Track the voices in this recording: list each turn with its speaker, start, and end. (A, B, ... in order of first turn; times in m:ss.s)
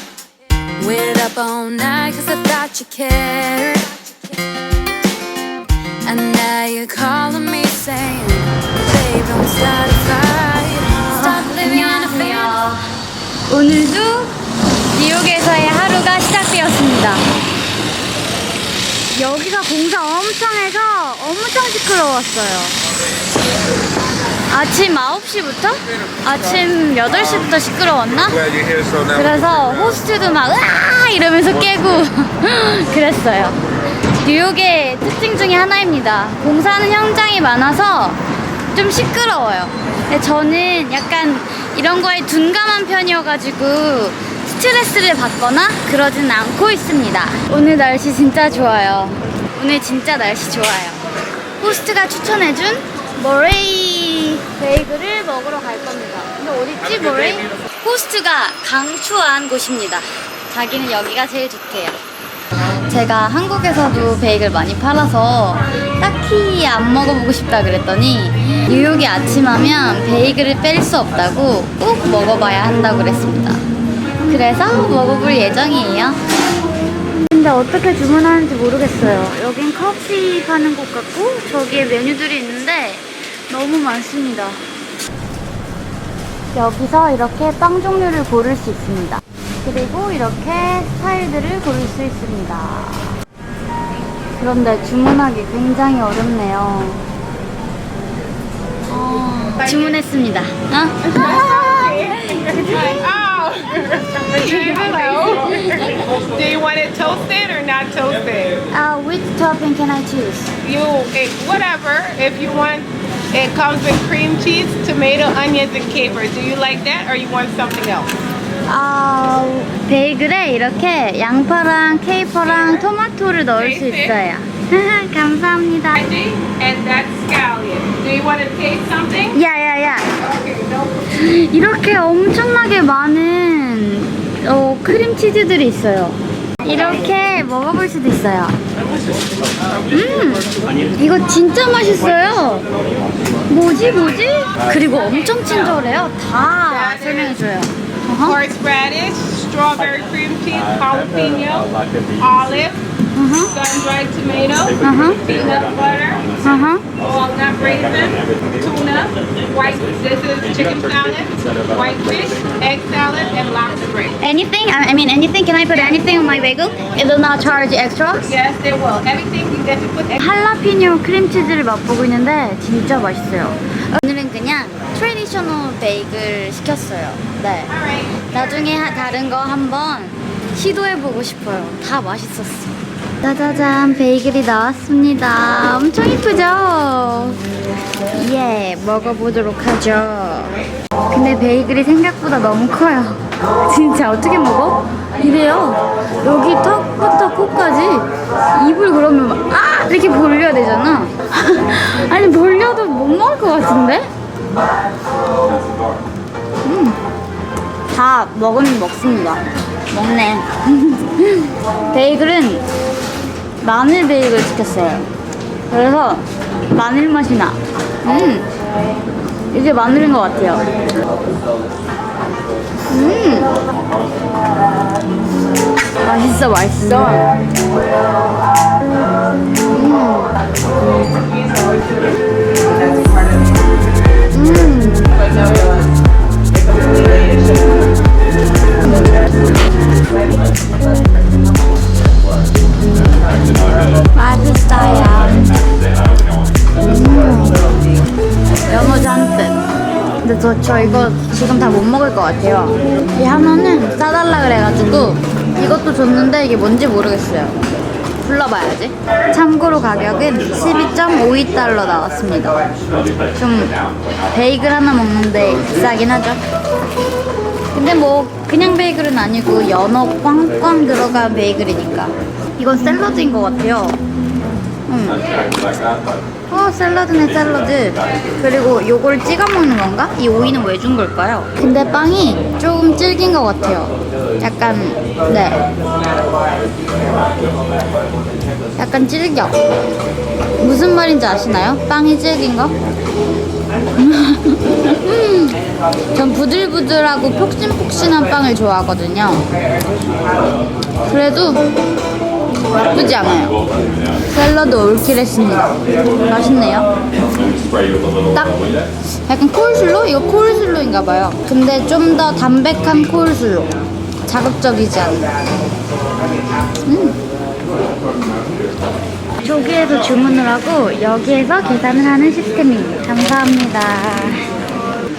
0:00.8-0:04.3 A
0:06.0-0:12.6 A
0:11.0-0:12.8 B
0:13.5-0:14.3 B
0:14.9-0:17.2 B
0:19.1-0:22.8 B
0:24.5-0:33.6 B
0:34.1-0:51.0 B
0:51.6-1:02.0 B
1:02.7-1:13.6 B
1:14.2-1:16.2 B
1:17.2-1:24.6 B
1:26.5-1:33.2 B
1:34.4-1:37.1 B
1:38.9-1:43.2 B
1:39.6-1:39.9 C
1:41.0-1:48.6 C
1:44.3-1:46.0 B
1:48.7-1:50.5 B
1:50.6-1:58.2 C
1:58.7-2:06.1 B
2:02.4-2:02.9 C
2:03.6-2:04.2 C
2:06.0-2:09.4 C
2:09.3-2:10.1 B
2:10.2-2:11.0 C
2:11.1-2:18.6 B
2:19.9-2:22.7 B
2:23.5-2:28.4 B
2:26.7-2:27.4 C
2:28.2-2:32.8 C
2:33.2-2:33.6 B
2:33.5-2:36.4 C
2:34.8-2:35.3 B
2:36.4-2:36.9 B
2:37.0-2:44.2 C
2:44.2-2:48.3 B
2:45.7-2:46.1 C
2:48.2-2:50.2 C
2:50.2-2:57.7 B
2:57.7-2:58.3 C
2:58.3-3:07.4 B
3:08.1-3:24.1 B
3:26.6-3:27.0 B
3:27.9-3:32.6 B
3:33.6-3:35.1 B
3:35.7-3:38.5 B
3:39.5-3:40.7 B
3:42.9-3:43.6 B
3:46.0-3:47.3 B
3:49.7-3:50.4 B
3:54.3-3:55.2 B
4:04.1-4:05.5 B
4:06.8-4:07.6 B
4:08.7-4:09.6 B
4:10.2-4:17.6 B
4:18.2-4:22.6 B
4:23.4-4:23.8 B
4:24.3-4:26.4 B
4:27.7-4:34.0 B
4:34.9-4:35.3 B
4:36.5-4:45.7 B
4:48.8-4:49.6 B
4:50.6-4:52.8 B
4:54.0-4:55.6 B
4:56.1-4:59.5 B
5:01.1-5:01.7 B
5:02.7-5:03.6 B
5:04.2-5:06.9 B
5:08.3-5:13.7 B
5:14.2-5:15.3 B
5:16.9-5:17.2 B
5:19.4-5:24.4 B